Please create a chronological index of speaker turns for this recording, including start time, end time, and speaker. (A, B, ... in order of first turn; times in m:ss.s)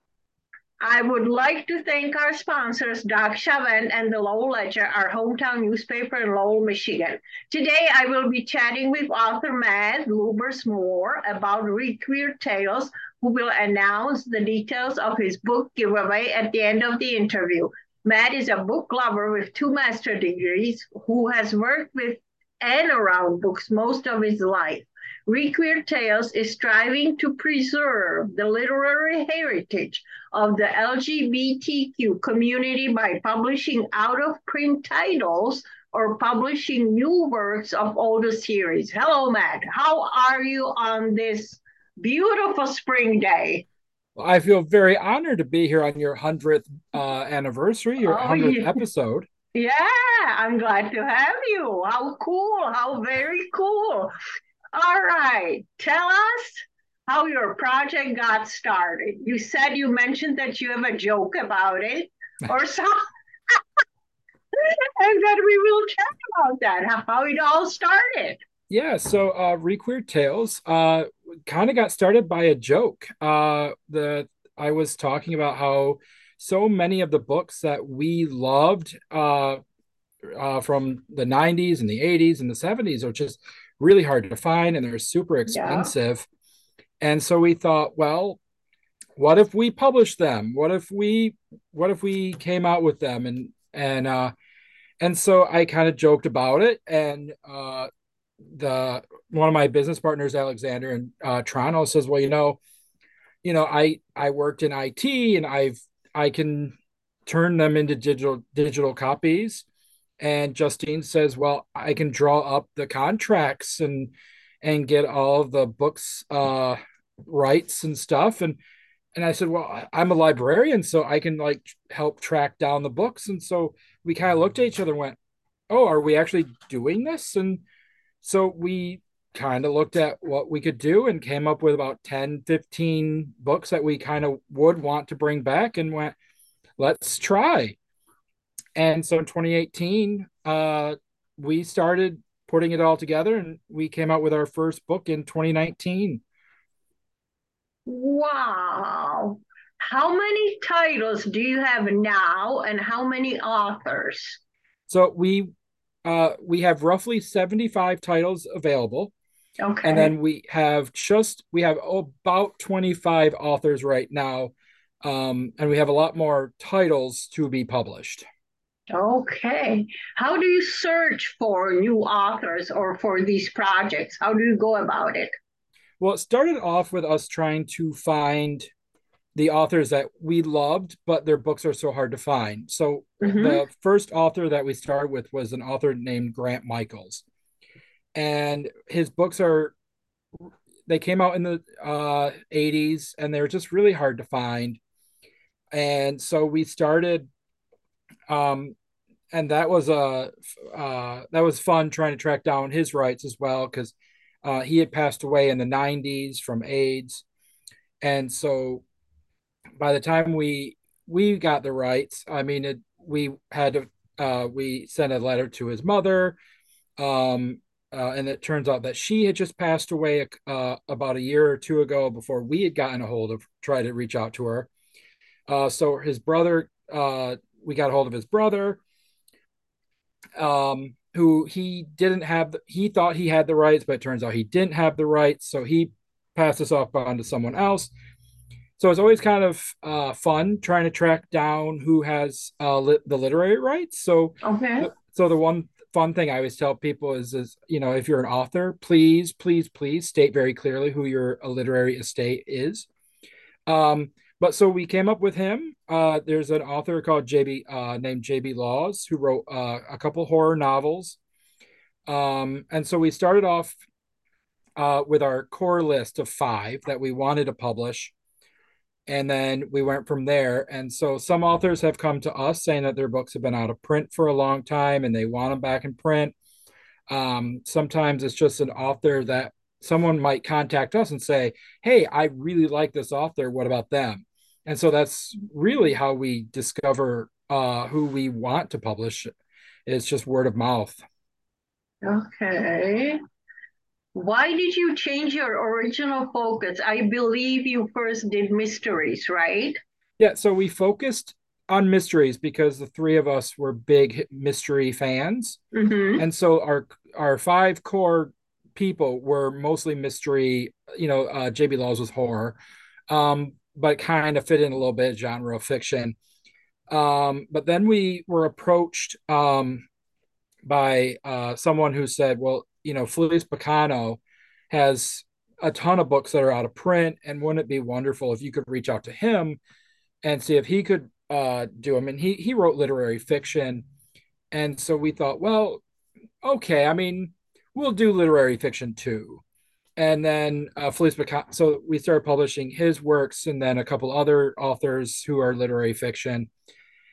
0:00.8-0:43.7 A
0:44.2-0:49.3 B
0:48.0-0:48.8 A
0:49.5-0:54.1 A
0:54.7-1:03.0 A
1:04.5-1:08.4 A
1:08.7-1:19.6 B
1:20.4-1:26.3 B
1:25.5-1:25.9 A
1:27.0-1:28.4 B
1:29.2-1:34.3 B
1:35.0-1:37.9 B
1:38.4-1:42.6 B
1:43.4-1:46.7 B
1:47.2-1:49.6 B
1:50.2-1:58.6 B
1:59.1-2:05.2 B
2:05.7-2:07.6 B
2:08.2-2:16.2 B
2:16.8-2:17.8 B
2:18.8-2:26.2 B
2:27.8-2:34.4 A
2:34.9-2:35.5 B
2:36.0-2:39.1 B
2:39.6-2:40.1 A
2:39.8-2:48.2 B
2:48.9-2:55.3 A
2:56.0-2:58.7 B
2:59.3-3:07.2 B
3:03.2-3:03.6 A
3:08.1-3:09.7 B
3:10.8-3:14.8 B
3:15.7-3:17.3 B
3:18.3-3:18.8 B
3:19.3-3:27.2 B
3:28.0-3:28.8 B
3:29.8-3:36.4 B
3:37.0-3:44.7 B
3:45.5-3:48.8 B
3:50.4-3:57.9 B
3:58.8-4:12.9 B
4:04.4-4:04.9 A
4:13.7-4:21.2 B
4:22.1-4:23.8 B
4:24.8-4:28.1 B
4:29.1-4:36.3 B
4:37.1-4:49.3 B
4:49.8-4:51.0 B
4:52.0-4:53.2 A
4:54.1-4:59.8 A
5:00.2-5:05.6 B
5:05.7-5:06.2 A
5:06.2-5:12.6 B
5:13.1-5:16.2 B
5:16.9-5:19.9 B
5:20.6-5:29.6 B
5:30.2-5:33.8 B
5:34.5-5:35.8 B
5:36.4-5:39.4 B
5:40.0-5:46.5 B